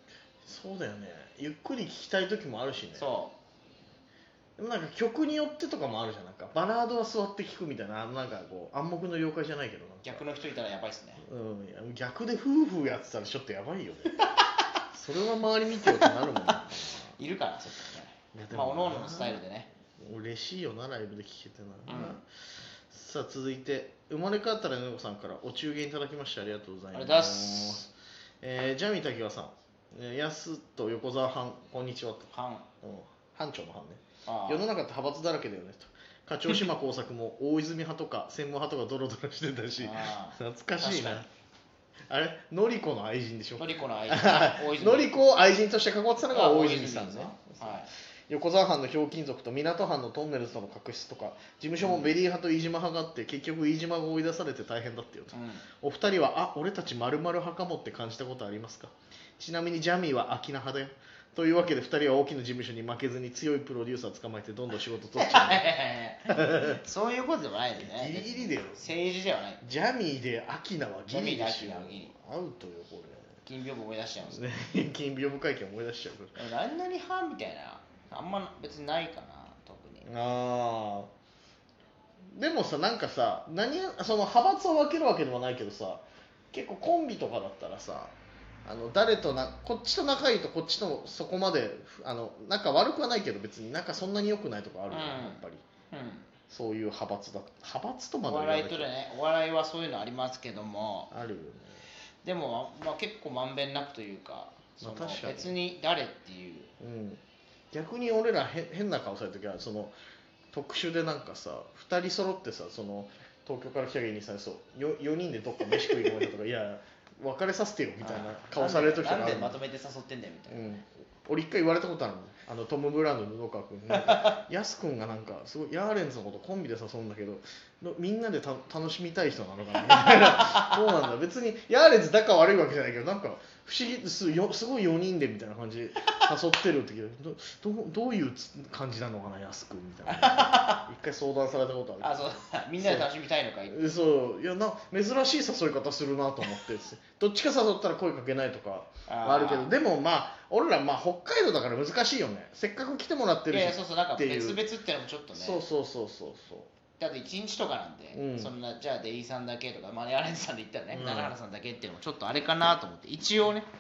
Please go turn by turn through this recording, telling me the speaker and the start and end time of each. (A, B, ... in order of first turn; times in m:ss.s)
0:00.4-0:03.1 A
0:02.9-0:03.3 B
0:04.6-0:10.2 A
0:10.0-0:11.2 B
0:11.2-0:14.2 A
0:14.2-0:14.5 B
0:14.9-0:17.2 A
0:17.2-0:19.7 B
0:18.3-0:19.4 A
0:20.0-0:22.2 A
0:21.9-0:22.2 B
0:22.9-0:32.3 A
0:26.9-0:27.8 B
0:32.3-0:32.7 B
0:32.8-0:41.3 A
0:34.2-0:34.6 B
0:39.8-0:41.2 B
0:42.1-1:05.7 A
0:43.6-0:45.2 B
0:46.3-0:47.9 B
0:51.8-0:52.1 B
0:55.3-0:55.6 B
1:05.1-1:09.6 B
1:06.3-1:06.8 A
1:07.8-1:08.9 A
1:09.6-1:13.3 A
1:11.1-1:12.1 B
1:13.4-1:14.4 B
1:14.3-1:16.4 A
1:16.3-1:20.0 B
1:20.0-1:21.1 A
1:22.3-1:35.6 A
1:34.9-1:36.3 B
1:36.5-1:38.9 A
1:38.2-1:41.1 B
1:41.1-1:41.8 A
1:42.2-1:46.7 B
1:44.8-1:45.5 A
1:46.8-1:49.9 A
1:50.5-1:59.6 A
1:55.8-1:56.1 B
1:58.0-2:00.6 B
2:00.5-2:22.1 A
2:03.9-2:04.3 B
2:09.8-2:11.0 B
2:20.0-2:20.8 B
2:22.0-2:23.8 B
2:22.8-2:23.1 A
2:23.7-2:34.6 A
2:29.1-2:29.7 B
2:33.5-2:35.6 B
2:35.3-2:36.7 A
2:37.0-2:43.7 B
2:38.1-2:38.5 A
2:40.9-2:41.3 A